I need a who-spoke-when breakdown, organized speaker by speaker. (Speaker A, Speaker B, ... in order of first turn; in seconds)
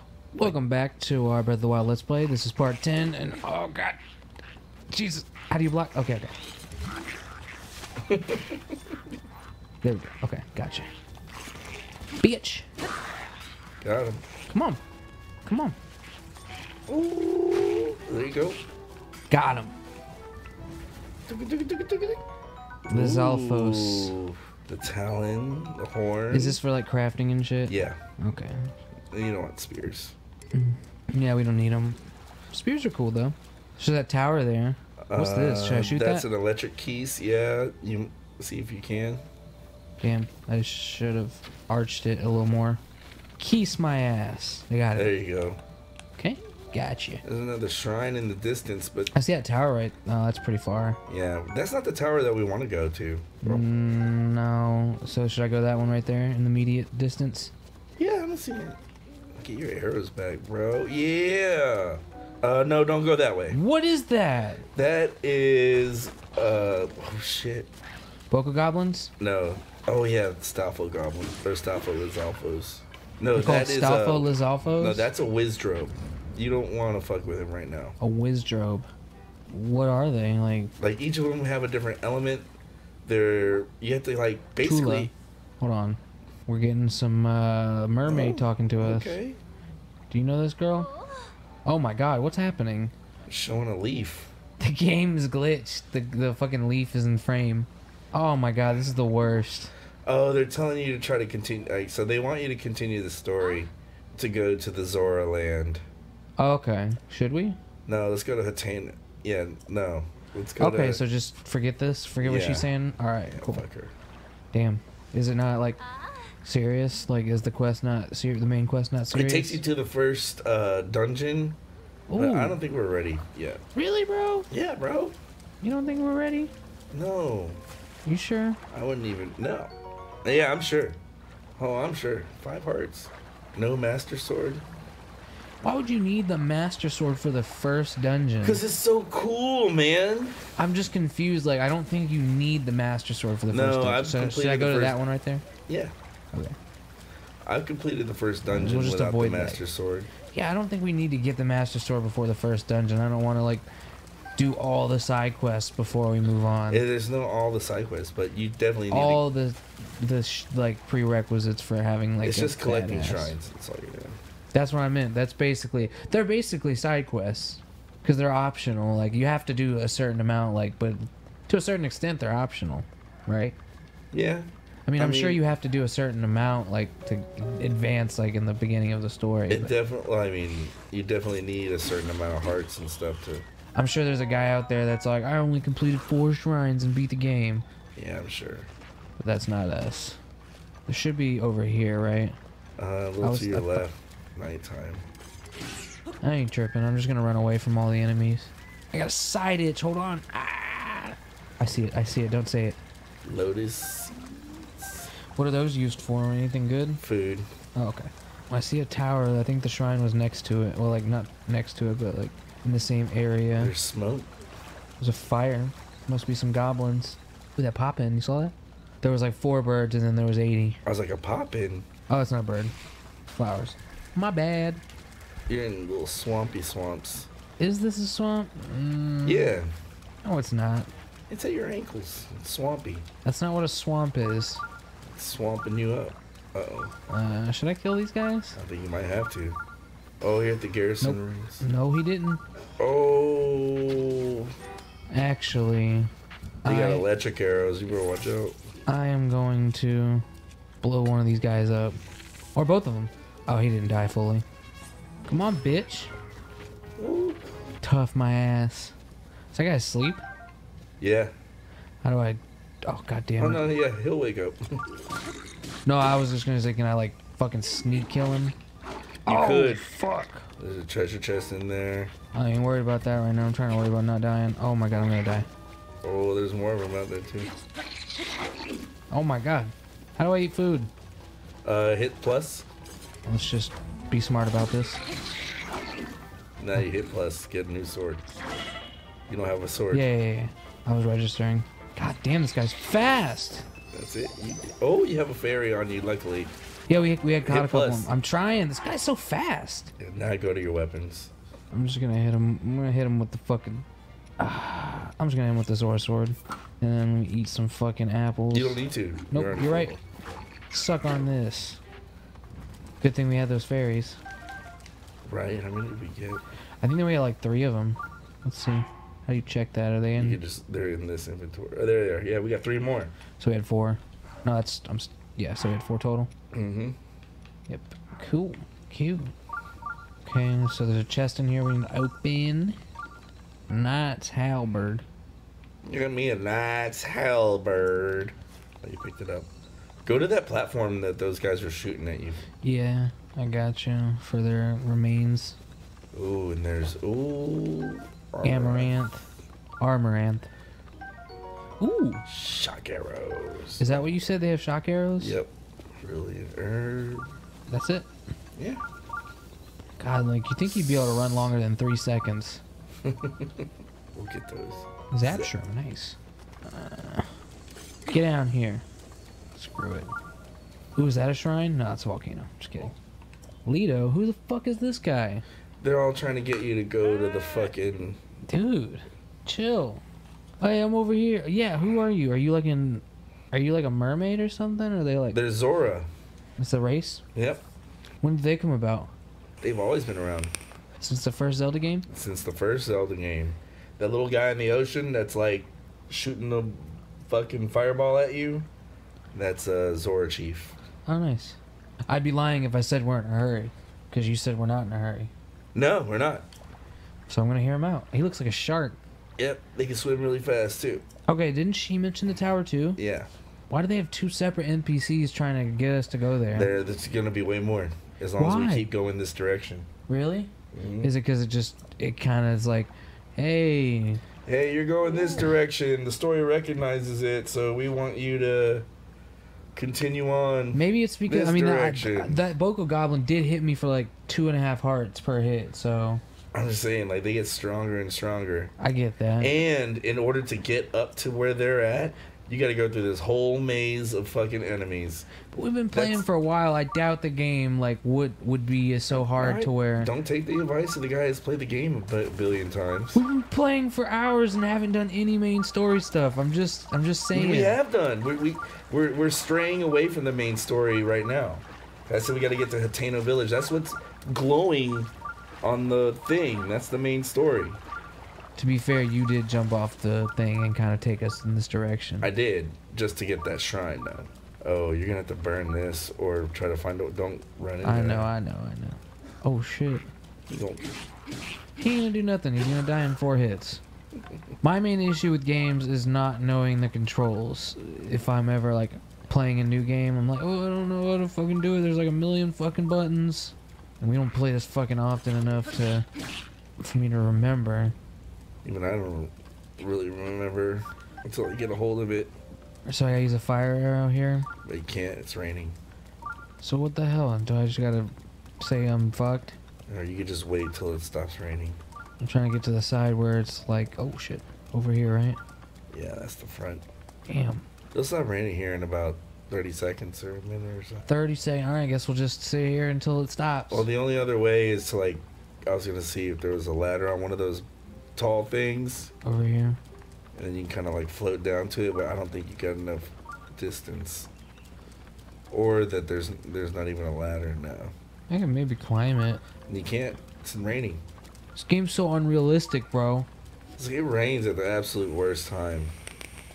Speaker A: 0.3-4.0, 4.9-6.3, 9.8-10.9, 12.2-12.7, 14.5-14.8, 15.4-15.8, 19.3-19.8, 22.9-24.1, 26.3-28.7, 30.5-32.0, 32.5-36.3, 40.0-42.8, 43.4-45.1, 46.2-47.2, 49.1-51.0, 53.4-57.5, 63.5-64.6, 68.3-69.1, 73.3-75.1, 78.0-78.9, 79.5-80.7, 84.6-89.2, 90.1-90.9, 91.7-92.9, 94.6-99.7, 106.4-107.6, 110.6-113.6, 114.5-115.8, 116.4-119.6, 122.1-122.6, 123.7-124.5, 125.6-126.5, 128.1-128.6, 135.6-138.6, 140.6-145.5, 148.5-149.6, 150.3-153.7, 154.4-156.9, 158.9-163.4, 164.5-173.6, 174.9-179.7, 183.8-187.7, 189.2-190.2, 190.9-192.4, 193.2-193.8, 196.2-202.8, 205.4-207.0, 207.8-213.7, 215.0-220.8, 222.1-222.8, 223.3-224.8, 227.6-229.6, 230.2-230.9, 233.2-234.6, 237.1-238.6, 241.0-242.4, 245.1-246.1, 246.6-247.1, 248.9-250.2, 250.8-252.0, 252.6-254.4, 255.2-256.1, 257.8-258.9, 259.5-260.2, 262.0-263.7, 265.9-268.6, 269.2-270.5, 272.3-275.5, 279.1-280.9, 283.2-285.0, 289.9-293.6, 296.9-299.9, 301.7-303.9, 304.4-308.8, 309.3-309.9, 310.7-311.8, 313.0-314.2, 316.8-320.4, 323.4-326.3, 327.7-329.3, 330.2-332.8, 333.7-335.1, 342.6-345.6, 348.4-349.2, 349.8-350.5, 351.8-352.2, 353.8-355.4, 357.7-358.1, 360.0-362.6, 365.1-367.3, 368.1-368.9, 369.6-370.1, 370.9-372.9, 373.7-375.4, 378.5-380.0, 380.6-385.4, 386.6-387.2, 388.2-389.1, 391.0-392.1, 401.1-405.3, 407.3-409.0, 411.3-413.0, 413.7-416.8, 418.4-418.9, 420.1-424.2, 430.7-436.2, 438.8-439.5, 445.5-450.1, 453.1-457.8, 468.6-472.3, 477.8-480.1, 481.8-483.8, 484.6-496.1, 496.8-497.9, 502.9-504.5, 506.6-509.6, 512.2-515.4, 517.3-517.6, 521.1-523.9, 529.2-529.8, 538.3-539.4, 541.5-543.3
Speaker B: 8.1-8.8, 13.8-14.2, 16.9-18.6, 21.3-22.2, 22.9-26.6, 27.7-28.0, 29.1-30.2, 35.1-39.2, 44.9-45.6, 47.2-49.1, 51.1-53.7, 58.0-58.8, 59.4-63.6, 64.8-67.7, 69.2-78.0, 80.8-82.5, 83.0-85.1, 88.0-89.4, 93.3-94.3, 100.0-105.8, 107.9-111.0, 112.2-112.7, 113.3-113.9, 119.1-121.6, 122.2-123.6, 124.5-125.2, 126.9-127.6, 128.7-129.7, 130.2-131.0, 131.6-134.6, 138.4-140.4, 143.5-145.0, 145.7-145.9, 147.5-150.1, 156.7-159.2, 162.2-164.2, 174.1-175.4, 179.5-183.5, 188.0-188.7, 192.8-195.1, 203.2-205.1, 207.0-207.5, 213.6-214.3, 220.8-221.9, 225.5-227.3, 229.2-229.7, 231.3-233.1, 235.0-236.9, 238.6-239.6, 240.2-241.7, 242.8-244.5, 246.7-248.6, 257.0-257.4, 261.0-261.3, 263.4-264.6, 269.2-269.9, 270.6-272.1, 276.0-277.5, 281.6-282.7, 286.6-288.2, 289.3-290.1, 293.9-296.5, 297.4-298.1, 300.0-301.3, 308.5-310.0, 315.2-316.4, 320.2-323.1, 326.5-327.0, 335.8-339.5, 340.1-342.4, 346.1-348.9, 352.3-354.1, 355.2-357.3, 358.6-358.8, 363.0-365.5, 375.8-378.2, 385.3-386.1, 387.4-387.6, 389.6-390.5, 392.1-398.7, 399.3-400.8, 405.7-406.5, 409.4-411.1, 413.0-413.3, 416.5-419.9, 420.7-421.1, 424.4-428.9, 429.8-432.4, 436.5-438.7, 439.4-445.3, 445.9-446.2, 449.1-453.2, 457.3-465.1, 465.6-467.8, 472.2-478.3, 480.5-480.9, 498.6-502.4, 504.6-505.8, 509.9-511.8, 515.9-516.8, 517.9-521.1, 523.7-529.1, 530.4-534.3, 535.5-537.9, 539.7-541.0, 543.8-545.9